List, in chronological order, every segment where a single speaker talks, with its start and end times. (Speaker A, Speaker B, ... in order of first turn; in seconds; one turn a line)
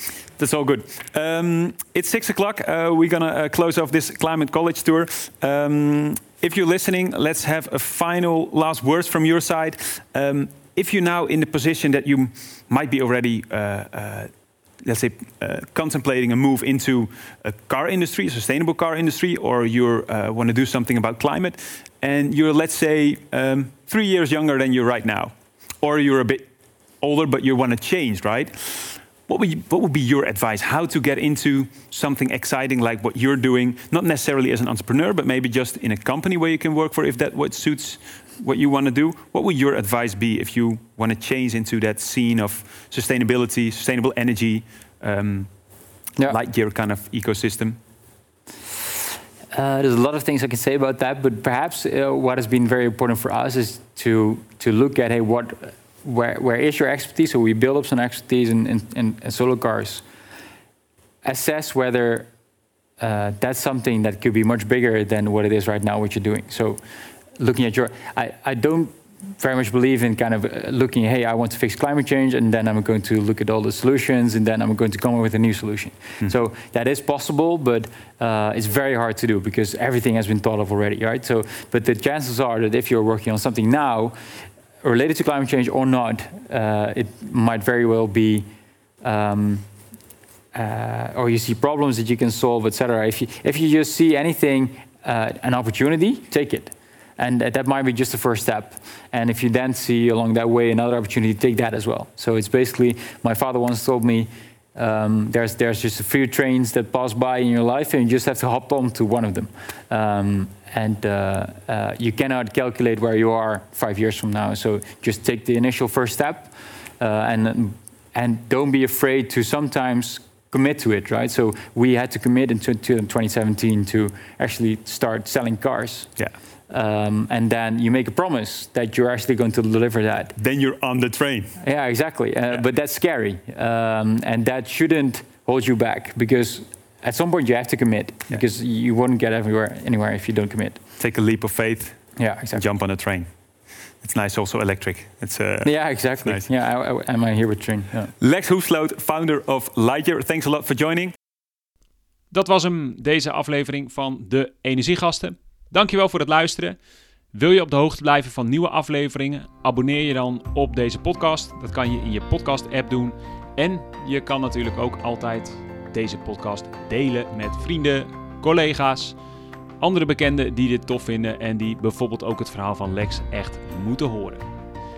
Speaker A: 0.4-26.5
Speaker A: 27.0-45.5
Speaker A: 46.2-47.8
Speaker B: 49.5-60.0
Speaker B: 61.2-62.3
Speaker B: 63.0-66.8
Speaker B: 67.4-84.2
Speaker B: 84.8-88.5
Speaker B: 89.0-89.7
Speaker B: 90.5-126.2
Speaker B: 126.7-130.3
Speaker A: 130.3-131.6
Speaker B: 131.6-140.8
Speaker A: 141.0-143.3
Speaker B: 142.2-142.6
Speaker A: 144.0-146.5
Speaker B: 145.6-148.1
Speaker A: 148.2-151.1
Speaker C: 152.3-156.8
Speaker C: 157.3-169.2
Speaker C: 169.8-174.4